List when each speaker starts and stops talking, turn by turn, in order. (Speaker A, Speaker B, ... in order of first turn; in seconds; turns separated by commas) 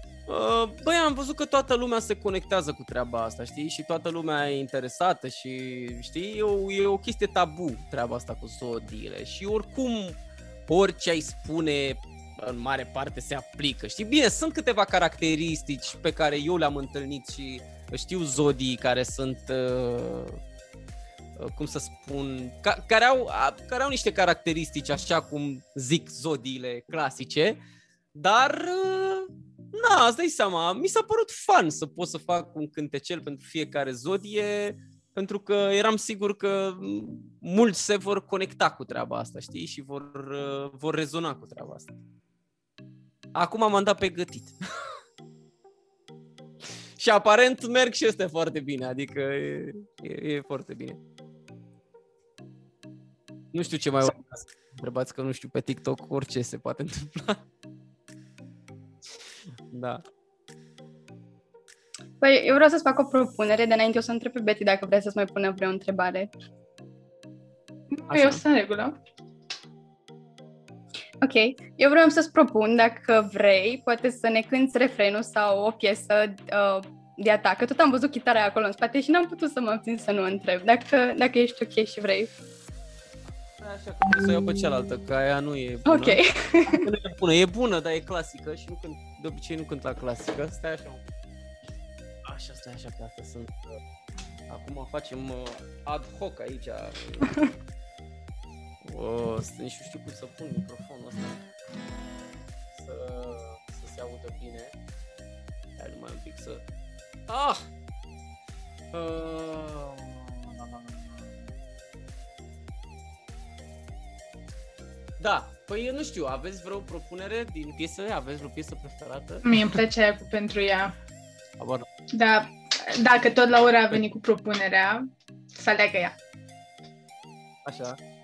Speaker A: 0.3-20.4, Speaker A: 21.4-27.6, Speaker A: 28.1-42.0, Speaker A: 43.3-44.6, Speaker A: 47.0-51.0, Speaker A: 53.5-57.4, Speaker A: 59.7-60.0, Speaker B: 62.2-66.3, Speaker C: 67.9-69.0, Speaker A: 68.1-68.4, Speaker B: 71.2-82.3, Speaker A: 83.6-91.0, Speaker B: 85.9-86.9, Speaker A: 92.2-93.6, Speaker A: 94.5-97.5, Speaker A: 98.8-101.4, Speaker A: 102.7-104.8, Speaker A: 105.8-106.6, Speaker A: 107.3-107.7, Speaker A: 108.9-111.0, Speaker A: 115.2-119.8, Speaker C: 119.4-121.0, Speaker A: 121.6-121.9, Speaker C: 122.1-126.2, Speaker A: 127.7-128.0